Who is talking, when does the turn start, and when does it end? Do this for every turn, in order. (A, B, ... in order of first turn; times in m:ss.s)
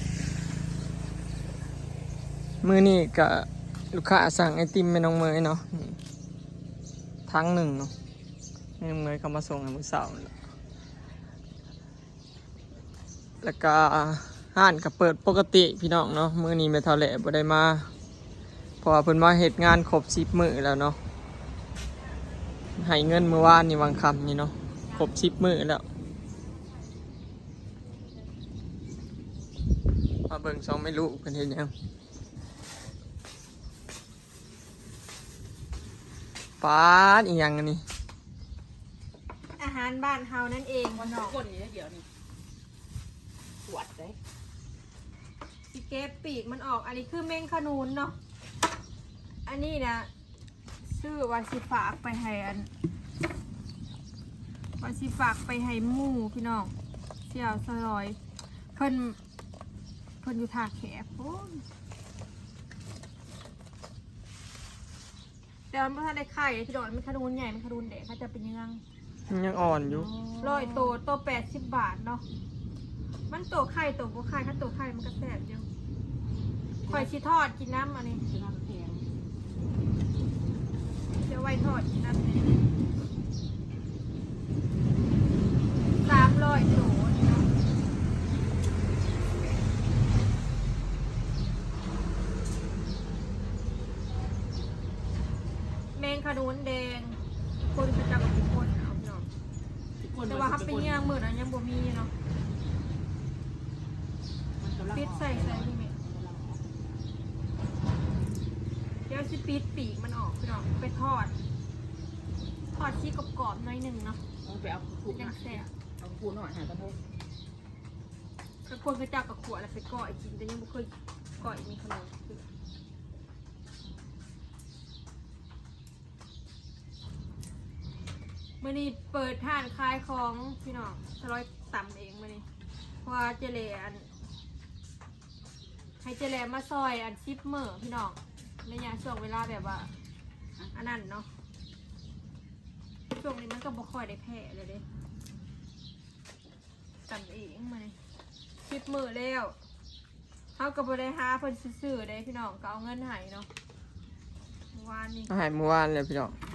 0:02.6-0:06.0 A
0:07.3-0:07.9 A
0:08.8-0:10.3 A
0:13.4-0:17.9 A
0:18.8-0:21.0 A
0:22.8-0:25.8 A
0:30.3-0:31.7 A
0:36.6-0:37.8 A
0:39.6-0:41.4 B
0:40.9-0:42.0 C
0:43.6-0:44.2 C
0:45.7-0:48.2 B
0:49.4-0:50.1 B
0:50.8-0:52.7 B
0:54.8-0:58.2 B
0:58.7-0:59.2 B
1:00.2-1:01.6 B
1:05.7-1:08.8 B
1:09.3-1:10.1 A
1:09.5-1:11.0 C
1:10.4-1:12.2 B
1:13.3-1:15.7 B
1:16.8-1:17.1 C
1:16.9-1:18.2 B
1:18.2-1:19.1 C
1:21.1-1:22.6 B
1:26.0-1:27.5 B
1:35.9-1:39.3 B
1:40.0-1:41.0 C
1:40.2-1:42.1 B
1:44.6-1:46.6 C
1:44.9-1:45.9 B
1:49.1-1:51.3 B
1:52.7-1:54.2 B
1:54.4-1:57.0 C
1:55.1-1:55.7 B
1:58.6-2:02.4 B
2:08.6-2:12.4 B
2:13.0-2:14.1 B
2:16.0-2:19.9 B
2:20.7-2:21.3 B
2:23.1-2:24.8 B
2:27.1-2:28.0 B
2:28.6-2:29.6 B
2:30.5-2:33.5 B
2:34.7-2:35.4 B
2:35.3-2:36.4 A